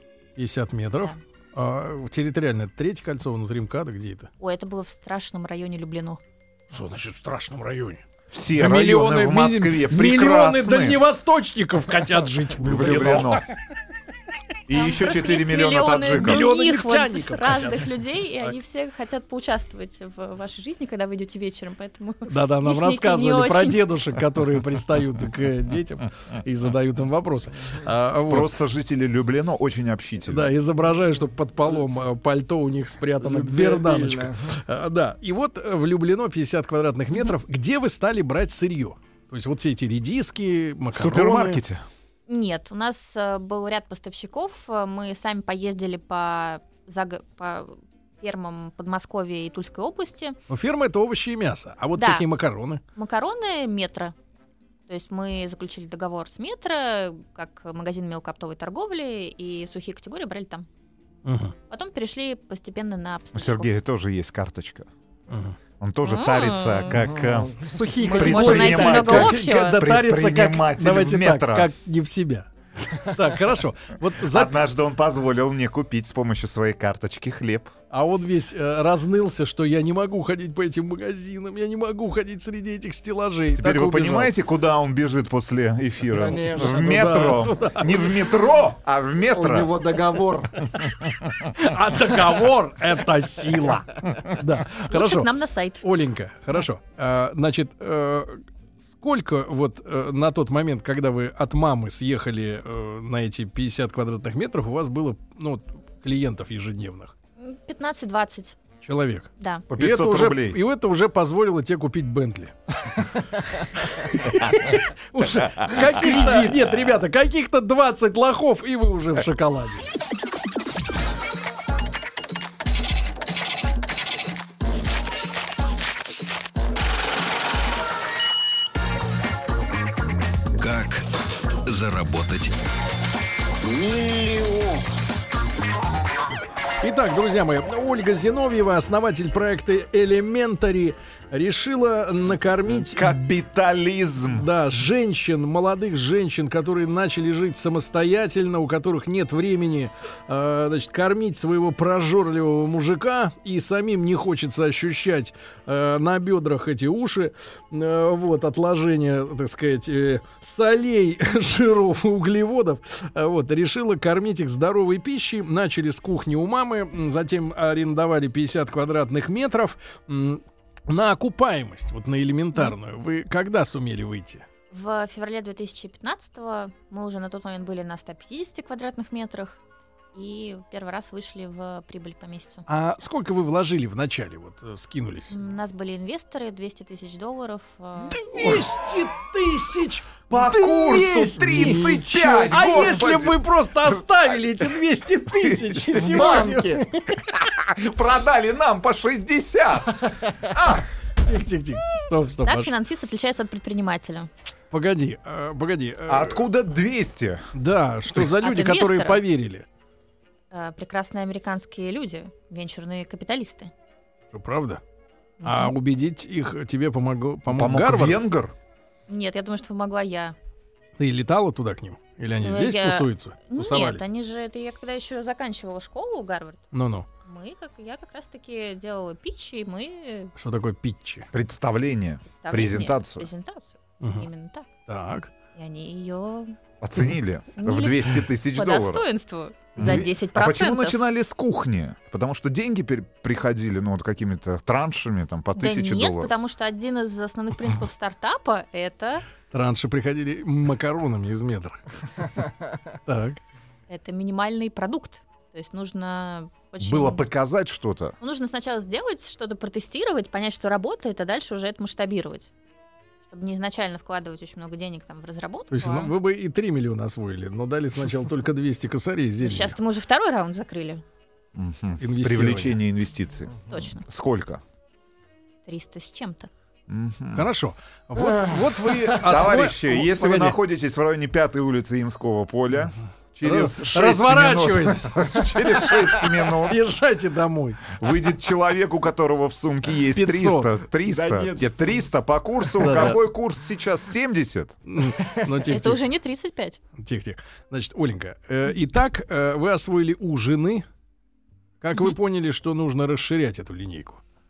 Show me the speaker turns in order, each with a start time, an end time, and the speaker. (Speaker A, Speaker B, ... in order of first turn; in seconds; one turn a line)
Speaker A: 0.4-4.3
Speaker B: 4.4-6.2
Speaker A: 6.7-8.0
Speaker C: 8.3-11.0
Speaker A: 8.6-13.6
Speaker C: 12.6-13.5
Speaker C: 14.7-16.5
Speaker B: 14.7-23.9
Speaker A: 16.1-18.5
Speaker A: 22.3-28.5
Speaker C: 28.3-30.5
Speaker A: 30.3-41.6
Speaker D: 33.2-34.6
Speaker C: 40.9-41.9
Speaker B: 42.3-50.4
Speaker A: 50.5-52.8
Speaker B: 52.0-52.2
Speaker B: 53.0-54.1
Speaker B: 54.9-60.7
Speaker A: 61.2-61.5
Speaker B: 61.7-63.7
Speaker C: 63.3-64.9
Speaker A: 65.3-65.6
Speaker C: 65.8-71.7
Speaker B: 66.0-67.0
Speaker D: 67.0-69.0
Speaker B: 68.0-69.8
Speaker A: 68.7-74.6
Speaker C: 74.3-77.7
Speaker A: 77.9-84.3
Speaker C: 83.6-89.8
Speaker D: 86.1-87.0
Speaker A: 86.8-88.2
Speaker D: 89.3-90.9
Speaker C: 91.0-91.3
Speaker A: 91.6-95.3
Speaker B: 94.9-95.8
Speaker A: 95.8-107.1
Speaker B: 107.4-108.6
Speaker A: 108.8-112.5
Speaker B: 109.4-109.6
Speaker C: 109.7-110.6
Speaker A: 113.9-119.9
Speaker B: 116.0-116.4
Speaker E: 130.6-131.1
Speaker E: 131.6-132.5
Speaker E: 133.6-134.9
Speaker A: 136.8-143.2
Speaker C: 142.7-144.5
Speaker A: 144.3-174.4
Speaker B: 174.7-179.6
Speaker B: 180.1-182.7
Speaker A: 182.7-185.3
Speaker B: 185.3-188.3
Speaker A: 188.1-197.2
Speaker C: 190.3-193.4
Speaker D: 191.4-193.1
Speaker C: 195.4-196.6
Speaker D: 196.0-196.9
Speaker C: 197.2-200.8
Speaker A: 201.2-202.7
Speaker B: 202.4-204.3
Speaker A: 204.7-206.4
Speaker C: 206.1-207.5
Speaker A: 207.5-209.7
Speaker B: 208.4-209.2
Speaker B: 210.5-213.7
Speaker A: 214.3-214.8
Speaker B: 215.4-215.7
Speaker A: 215.4-218.2
Speaker C: 217.5-218.6
Speaker B: 219.1-220.4
Speaker A: 221.0-224.0
Speaker B: 222.4-226.7
Speaker A: 226.7-227.1
Speaker B: 227.2-230.3
Speaker A: 230.4-231.3
Speaker C: 231.3-233.3
Speaker B: 232.3-234.7
Speaker A: 234.0-234.3
Speaker A: 234.9-235.3
Speaker B: 235.6-236.6
Speaker C: 236.8-239.1
Speaker B: 237.5-241.0
Speaker C: 239.8-246.3
Speaker A: 239.8-240.1
Speaker B: 245.6-249.2
Speaker A: 249.5-251.8
Speaker A: 253.1-253.4
Speaker B: 253.9-257.3
Speaker C: 256.8-258.2
Speaker B: 258.2-262.5
Speaker B: 263.3-266.1
Speaker A: 265.7-269.8
Speaker B: 269.4-271.0
Speaker C: 271.6-274.6
Speaker A: 272.0-272.8
Speaker B: 273.7-274.1
Speaker B: 275.7-276.5
Speaker C: 276.9-277.5
Speaker A: 277.3-280.6
Speaker C: 279.2-286.8
Speaker A: 283.4-285.3
Speaker A: 286.6-288.0
Speaker C: 287.9-294.8
Speaker A: 290.1-290.8
Speaker D: 291.1-292.1
Speaker A: 292.8-293.2
Speaker A: 294.9-296.0
Speaker B: 295.6-296.8
Speaker A: 297.0-300.8
Speaker A: 301.8-304.2